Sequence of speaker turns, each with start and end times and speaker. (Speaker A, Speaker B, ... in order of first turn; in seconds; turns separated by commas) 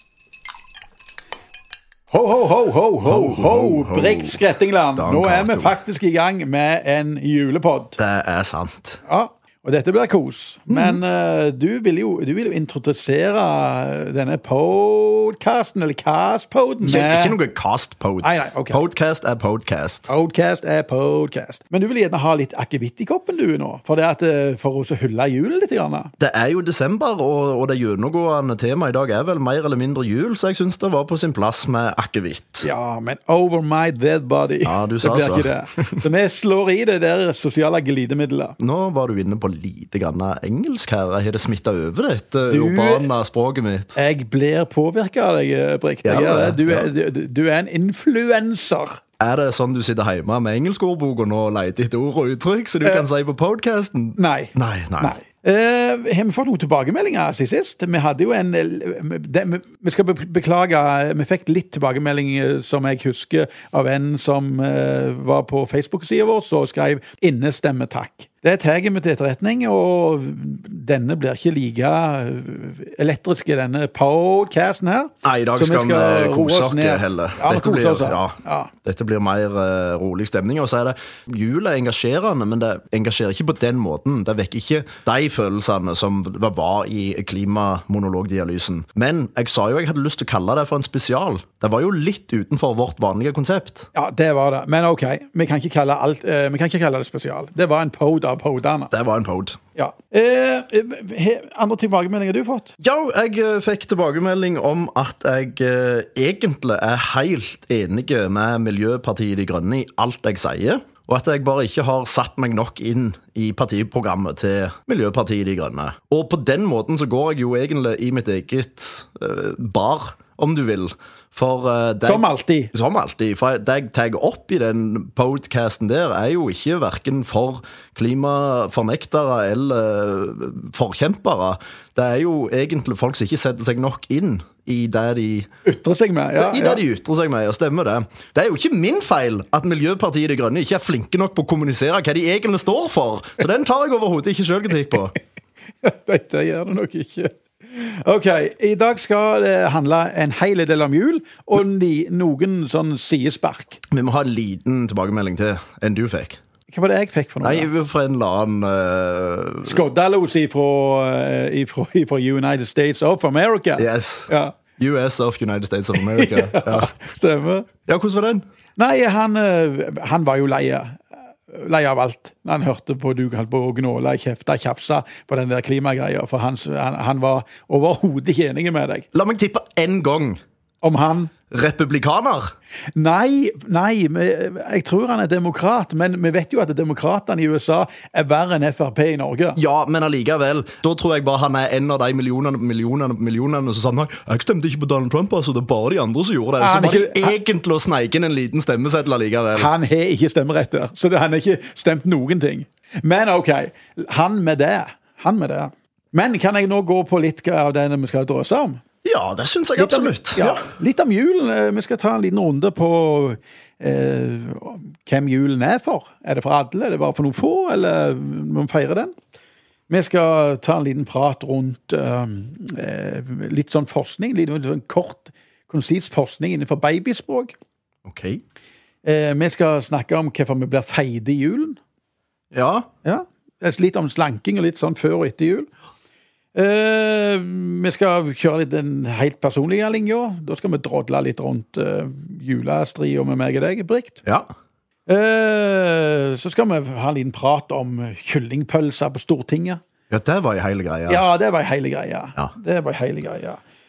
Speaker A: 2.1-8.0, Speaker B: 3.0-4.4, Speaker B: 5.0-5.8, Speaker B: 8.0-9.0, Speaker A: 9.1-17.4, Speaker B: 10.7-11.0, Speaker B: 16.8-20.1, Speaker A: 18.2-18.8, Speaker A: 20.1-26.1, Speaker B: 26.2-32.7, Speaker A: 32.6-38.6, Speaker B: 34.6-36.0, Speaker B: 38.6-44.0, Speaker A: 42.5-43.1, Speaker A: 44.0-49.0, Speaker B: 46.0-46.9, Speaker B: 49.2-55.1, Speaker A: 54.2-78.7, Speaker B: 75.2-93.9, Speaker A: 94.0-98.9, Speaker B: 98.9-99.6, Speaker A: 99.8-102.7, Speaker B: 102.8-135.5, Speaker A: 122.0-122.7, Speaker A: 135.7-136.8, Speaker B: 136.4-145.2, Speaker A: 145.8-153.8, Speaker B: 153.9-156.4, Speaker A: 156.7-157.7, Speaker B: 157.4-159.8, Speaker A: 159.7-164.6, Speaker B: 163.8-166.9, Speaker A: 165.9-167.7, Speaker B: 167.9-168.4, Speaker A: 168.8-179.1, Speaker B: 179.1-180.4, Speaker A: 180.8-181.3, Speaker B: 181.5-182.5, Speaker A: 182.9-189.6, Speaker B: 189.6-199.7, Speaker A: 196.6-197.3, Speaker A: 199.6-208.8, Speaker B: 209.0-210.7, Speaker A: 209.8-219.2, Speaker A: 219.9-227.5, Speaker B: 228.1-228.4, Speaker A: 229.0-231.8, Speaker B: 232.5-232.9, Speaker A: 233.0-235.7, Speaker A: 236.6-244.2, Speaker A: 245.1-249.8, Speaker B: 250.1-251.2, Speaker A: 251.1-253.6